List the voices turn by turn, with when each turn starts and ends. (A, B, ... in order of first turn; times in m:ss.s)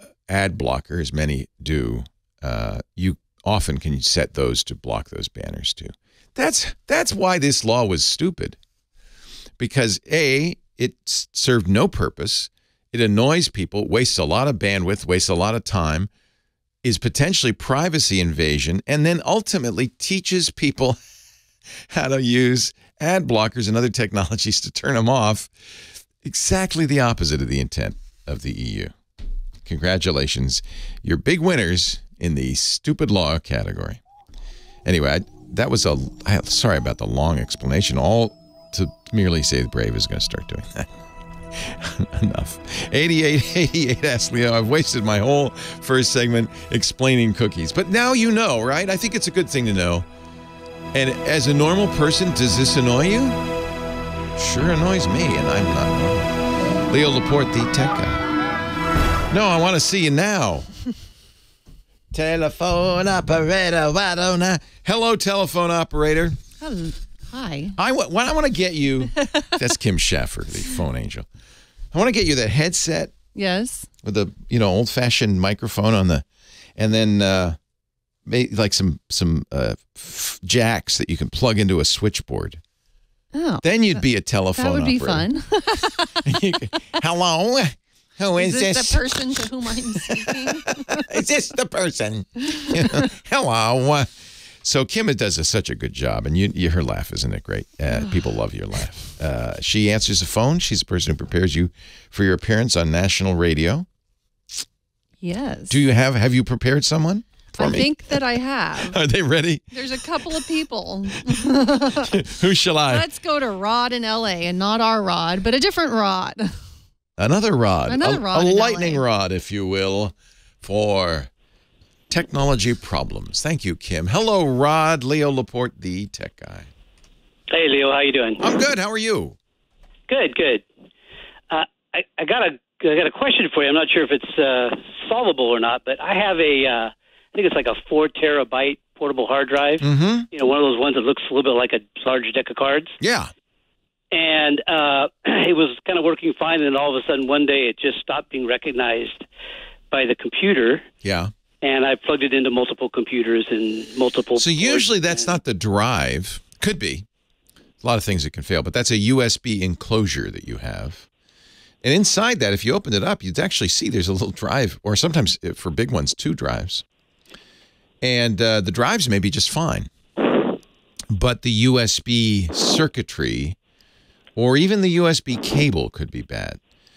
0:00.3-0:08.6 A
0:09.6-0:16.1 A
0:16.8-0:21.0 A
0:21.9-0:25.5 A
0:26.2-0:29.0 A
0:29.6-0:34.0 A
0:34.8-0:40.9 A
0:41.6-0:50.1 A
0:50.9-0:53.4 A
0:54.4-0:56.3 A
0:56.9-0:58.2 A
0:59.3-1:00.7 A
1:02.1-1:06.4 A
1:06.6-1:07.7 B
1:07.8-1:11.3 A
1:11.9-1:13.1 A
1:13.4-1:13.9 B
1:14.0-1:16.2 A
1:16.8-1:17.6 A
1:18.3-1:22.6 A
1:23.3-1:24.0 B
1:23.6-1:25.3 A
1:24.6-1:26.4 B
1:26.2-1:29.5 A
1:28.4-1:31.1 B
1:30.0-1:34.1 A
1:34.6-1:43.9 A
1:45.2-1:45.8 B
1:45.7-1:48.2 A
1:47.5-1:49.0 B
1:48.8-1:50.5 A
1:49.7-1:52.2 B
1:52.0-1:53.0 A
1:52.9-1:56.5 B
1:57.2-2:01.3 A
1:57.9-1:59.0 B
2:02.1-2:06.7 A
2:07.5-2:08.6 C
2:08.4-2:09.4 A
2:10.1-2:10.6 C
2:11.5-2:23.0 C
2:19.8-2:20.3 A
2:23.0-2:23.3 A
2:24.1-2:29.2 C
2:29.9-2:30.9 C
2:31.0-2:31.3 A
2:31.6-2:35.4 C
2:34.4-2:37.1 A
2:37.8-2:41.1 A
2:41.8-2:46.8 A
2:48.0-2:49.9 A
2:51.1-2:53.6 A
2:54.4-2:56.6 A